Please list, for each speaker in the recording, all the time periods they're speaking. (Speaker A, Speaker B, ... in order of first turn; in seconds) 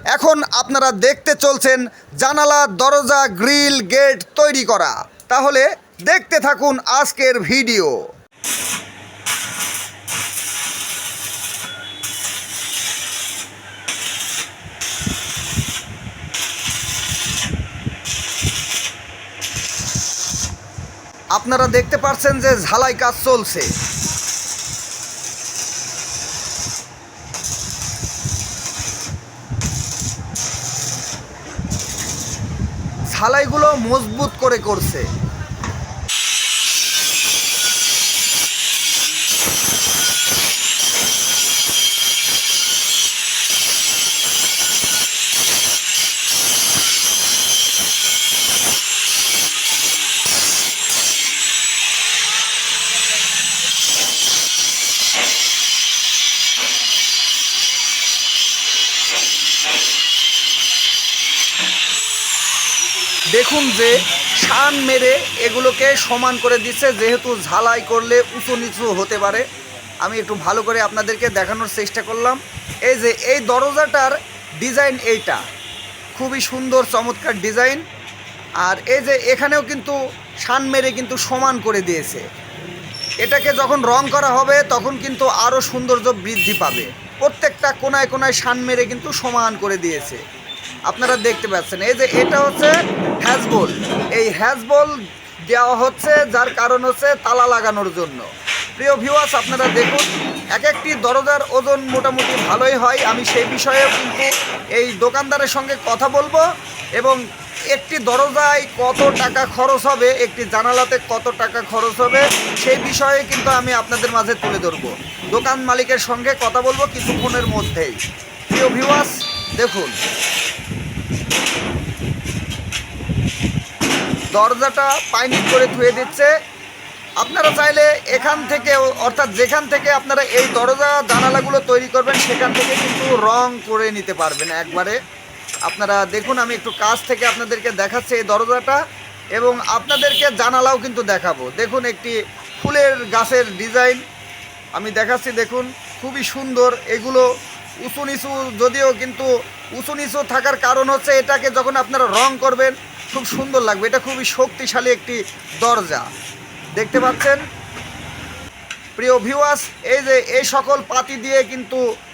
Speaker A: 0.1-8.0, 21.3-23.7, 33.1-35.0, 63.3-69.4, 70.0-75.4, 76.1-77.8, 78.6-82.2, 83.2-90.2, 90.9-95.0, 95.5-98.2, 98.8-106.4, 107.7-118.0, 118.5-120.0, 124.3-126.3, 127.2-135.0, 135.7-138.8, 139.3-144.0, 144.7-147.2, 147.8-156.1, 156.8-157.4, 159.0-161.8